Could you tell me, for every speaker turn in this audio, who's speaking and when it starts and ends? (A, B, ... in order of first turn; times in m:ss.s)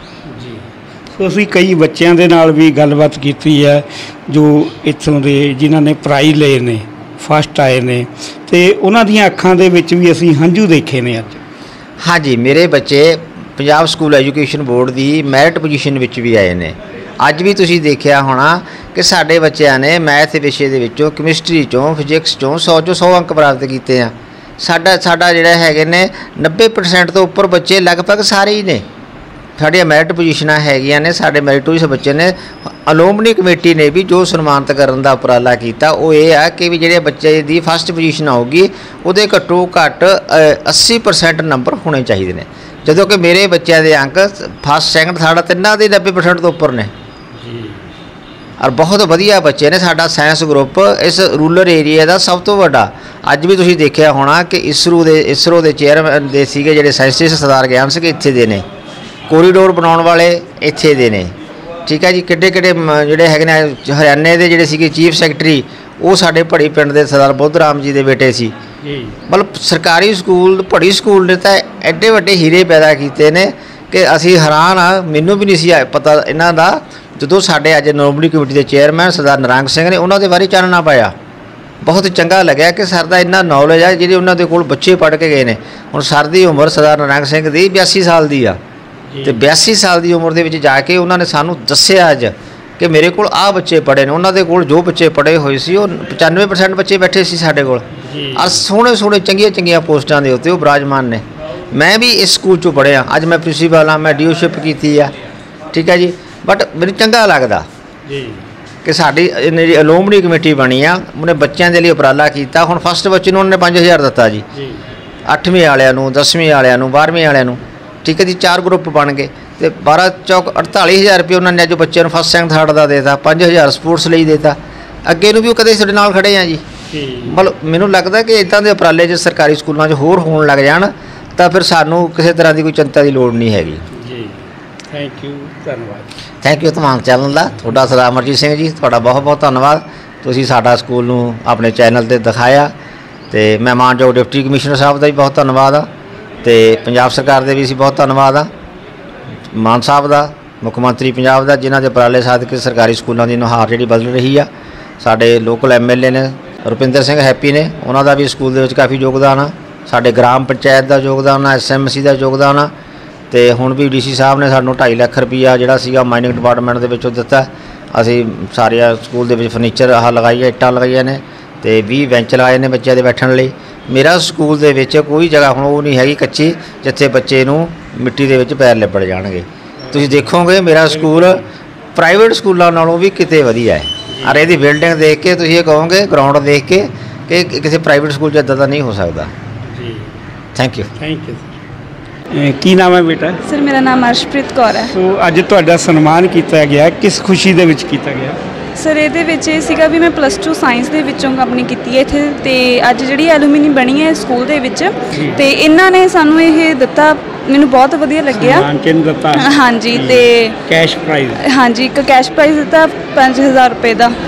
0:00.3-0:11.4 A
0:12.0-0:28.8 B
0:29.6-0:46.9 B
0:47.4-0:47.8 A
0:48.6-0:58.6 B
0:59.3-1:01.3 B
1:01.8-1:08.5 B
1:08.8-1:09.1 A
1:09.3-1:21.1 B
1:21.8-1:28.6 B
1:29.1-1:29.4 A
1:29.2-1:45.1 B
1:38.0-1:38.5 A
1:45.7-1:47.7 B
1:48.1-1:48.4 A
1:48.8-1:54.4 B
1:54.5-1:54.8 A
1:55.3-2:06.6 B
2:06.9-2:07.4 A
2:07.2-2:13.8 B
2:13.9-2:14.4 A
2:14.9-2:16.1 A
2:16.4-2:22.7 B
2:23.3-2:25.9 B
2:26.4-2:28.5 B
2:29.5-2:34.5 B
2:35.0-2:42.7 B
2:43.3-3:01.4 B
2:59.8-3:00.2 A
3:00.9-3:01.4 A
3:01.9-3:09.3 B
3:04.1-3:04.4 A
3:09.7-3:10.1 A
3:10.5-3:10.9 B
3:11.0-3:11.5 A
3:12.3-3:13.4 A
3:13.4-3:14.9 C
3:14.9-3:18.4 A
3:18.8-3:28.7 C
3:25.1-3:25.4 A
3:28.3-3:31.4 A
3:29.3-3:30.6 C
3:31.4-3:34.1 C